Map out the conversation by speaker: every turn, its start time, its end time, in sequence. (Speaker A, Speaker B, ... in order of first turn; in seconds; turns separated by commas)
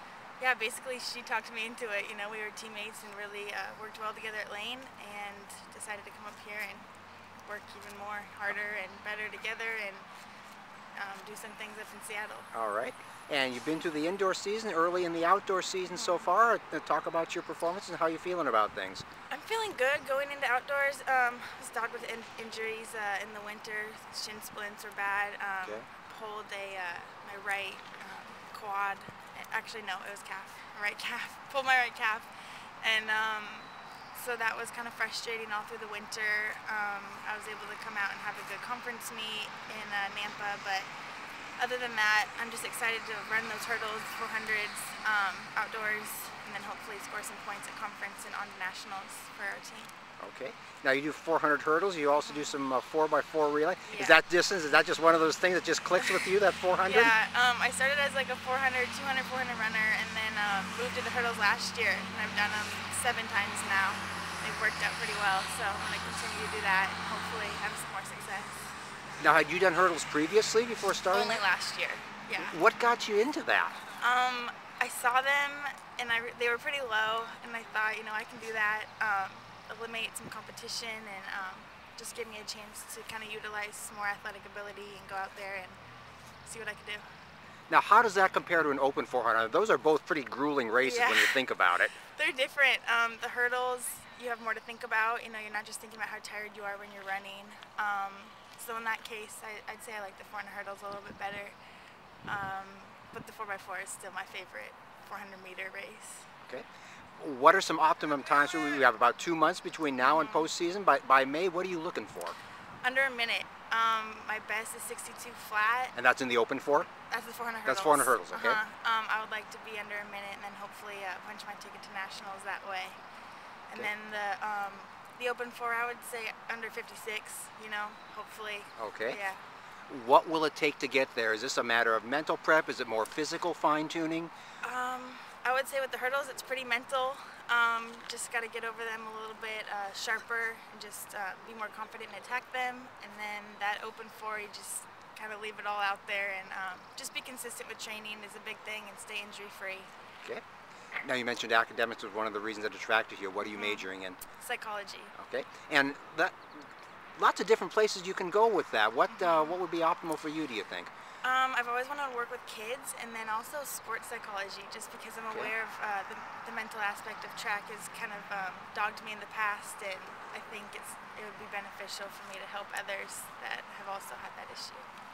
Speaker A: 0.4-6.9, Speaker A: 7.5-10.1, Speaker A: 11.0-12.5, Speaker B: 12.5-19.1, Speaker A: 15.9-16.3, Speaker A: 19.3-32.3, Speaker A: 32.8-40.9, Speaker A: 41.6-49.9, Speaker B: 50.2-57.1, Speaker A: 52.2-52.5, Speaker A: 53.9-54.2, Speaker A: 56.8-68.6, Speaker B: 69.2-71.4, Speaker A: 71.1-72.6, Speaker B: 72.4-73.8, Speaker A: 74.0-85.8, Speaker A: 86.5-87.0, Speaker B: 87.7-91.9, Speaker A: 90.8-91.4, Speaker A: 91.9-101.5, Speaker A: 102.3-106.3, Speaker B: 107.2-112.4, Speaker A: 110.0-110.5, Speaker A: 112.8-116.0, Speaker B: 116.0-116.9, Speaker A: 117.1-123.0, Speaker B: 117.7-118.6, Speaker A: 123.7-129.4, Speaker B: 128.8-129.2, Speaker B: 129.9-134.3, Speaker A: 134.6-149.9, Speaker B: 151.0-154.2, Speaker A: 153.4-155.2, Speaker B: 155.2-156.5, Speaker B: 157.2-160.9, Speaker A: 159.1-159.6, Speaker A: 161.2-174.9